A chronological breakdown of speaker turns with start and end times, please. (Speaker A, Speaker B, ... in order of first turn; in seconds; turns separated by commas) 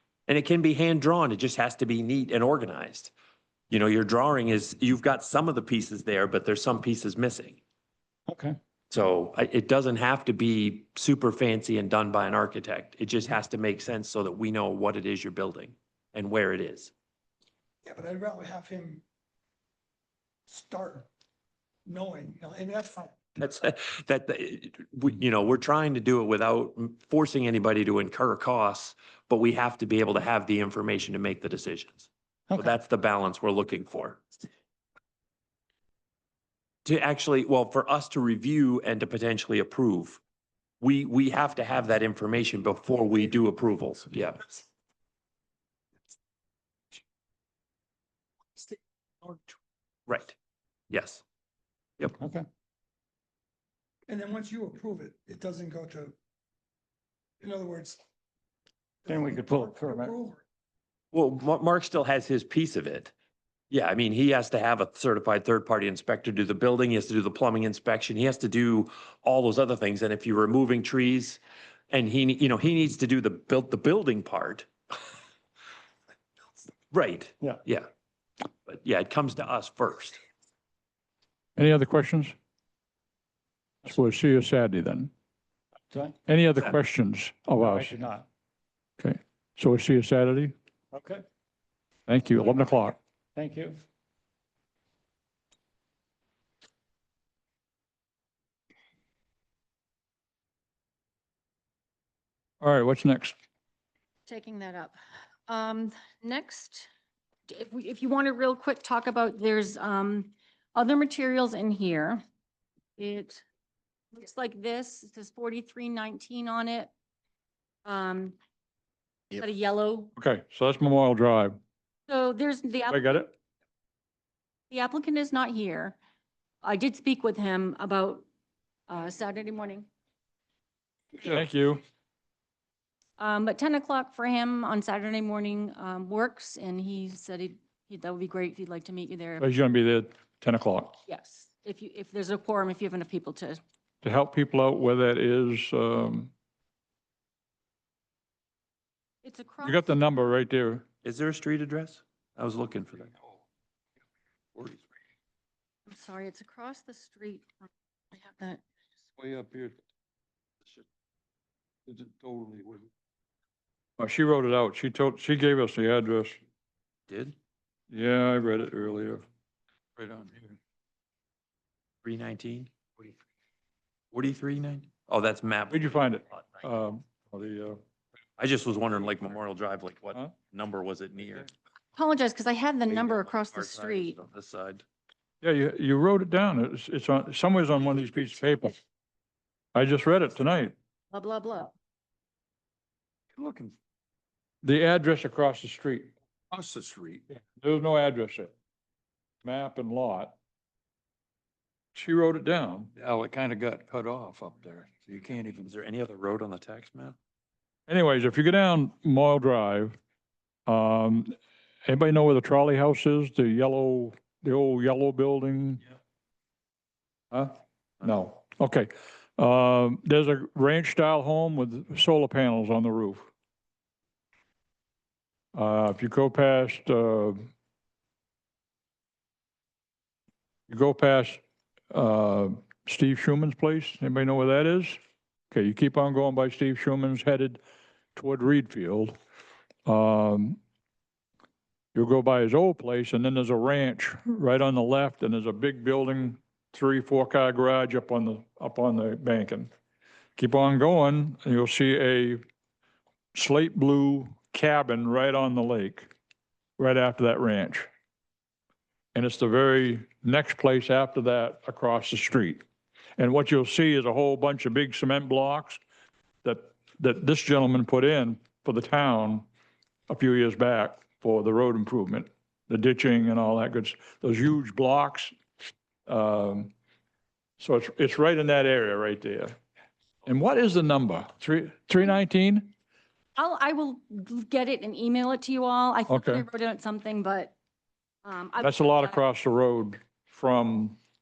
Speaker A: 0.3-3.1, Speaker A: 3.7-7.6, Speaker B: 8.3-8.6, Speaker A: 8.9-16.9, Speaker C: 17.8-19.0, Speaker C: 20.5-21.1, Speaker C: 21.9-23.1, Speaker A: 23.4-34.2, Speaker A: 36.8-40.2, Speaker A: 40.8-44.5, Speaker C: 48.5-49.5, Speaker A: 50.1-50.4, Speaker A: 50.9-51.2, Speaker B: 52.2-52.5, Speaker C: 54.1-56.1, Speaker C: 57.4-58.0, Speaker C: 59.0-60.4, Speaker B: 59.1-60.1, Speaker A: 61.1-63.1, Speaker A: 63.7-71.4, Speaker A: 71.9-74.7, Speaker A: 76.9-77.9, Speaker A: 78.7-80.2, Speaker D: 81.5-82.3, Speaker D: 83.9-85.1, Speaker B: 85.9-86.2, Speaker D: 86.3-87.9, Speaker B: 87.6-88.2, Speaker D: 89.0-90.5, Speaker B: 90.9-91.2, Speaker D: 92.1-93.0, Speaker B: 92.4-92.7, Speaker B: 93.3-93.8, Speaker D: 102.6-103.3, Speaker E: 104.3-106.9, Speaker E: 107.5-112.2, Speaker E: 113.0-113.4, Speaker E: 114.1-116.9, Speaker E: 117.8-118.3, Speaker E: 119.4-120.1, Speaker D: 120.2-121.6, Speaker E: 122.1-123.2, Speaker D: 122.9-123.3, Speaker E: 124.7-126.0, Speaker E: 126.6-128.2, Speaker E: 128.9-129.9, Speaker D: 131.2-131.8, Speaker E: 133.2-139.5, Speaker D: 139.4-140.9, Speaker E: 141.1-143.6, Speaker D: 144.0-146.3, Speaker E: 149.2-149.8, Speaker D: 149.6-150.8, Speaker A: 151.0-153.1, Speaker E: 155.9-158.6, Speaker F: 159.2-159.8, Speaker F: 161.9-162.9, Speaker D: 164.0-166.4, Speaker A: 167.1-167.3, Speaker D: 167.9-169.2, Speaker F: 169.9-170.6, Speaker A: 172.0-172.7, Speaker A: 174.1-176.6, Speaker D: 175.7-177.8, Speaker A: 178.4-181.5, Speaker E: 181.9-184.2, Speaker A: 182.9-184.8, Speaker D: 185.4-188.8, Speaker D: 189.7-190.7, Speaker E: 191.1-191.7, Speaker F: 193.3-193.7, Speaker D: 194.6-196.1, Speaker F: 196.5-197.2, Speaker D: 197.6-198.5, Speaker D: 199.4-200.3, Speaker D: 201.9-202.9, Speaker F: 202.9-205.7, Speaker A: 205.6-207.2, Speaker D: 207.9-209.9, Speaker D: 210.7-211.3, Speaker D: 211.8-215.8, Speaker D: 217.3-223.3, Speaker D: 225.5-227.4, Speaker D: 230.7-231.4, Speaker D: 231.9-235.0, Speaker D: 235.5-237.6, Speaker D: 238.2-239.2, Speaker D: 239.8-240.6, Speaker D: 241.9-249.7, Speaker D: 250.4-252.4, Speaker D: 253.3-256.1, Speaker D: 256.8-257.9, Speaker D: 259.1-262.6, Speaker D: 263.2-265.8, Speaker D: 266.4-269.4, Speaker D: 270.1-275.3, Speaker D: 276.1-276.7, Speaker D: 277.6-279.6, Speaker D: 280.2-282.7, Speaker E: 283.4-287.5, Speaker D: 286.1-286.4, Speaker E: 288.2-289.2, Speaker D: 288.6-291.0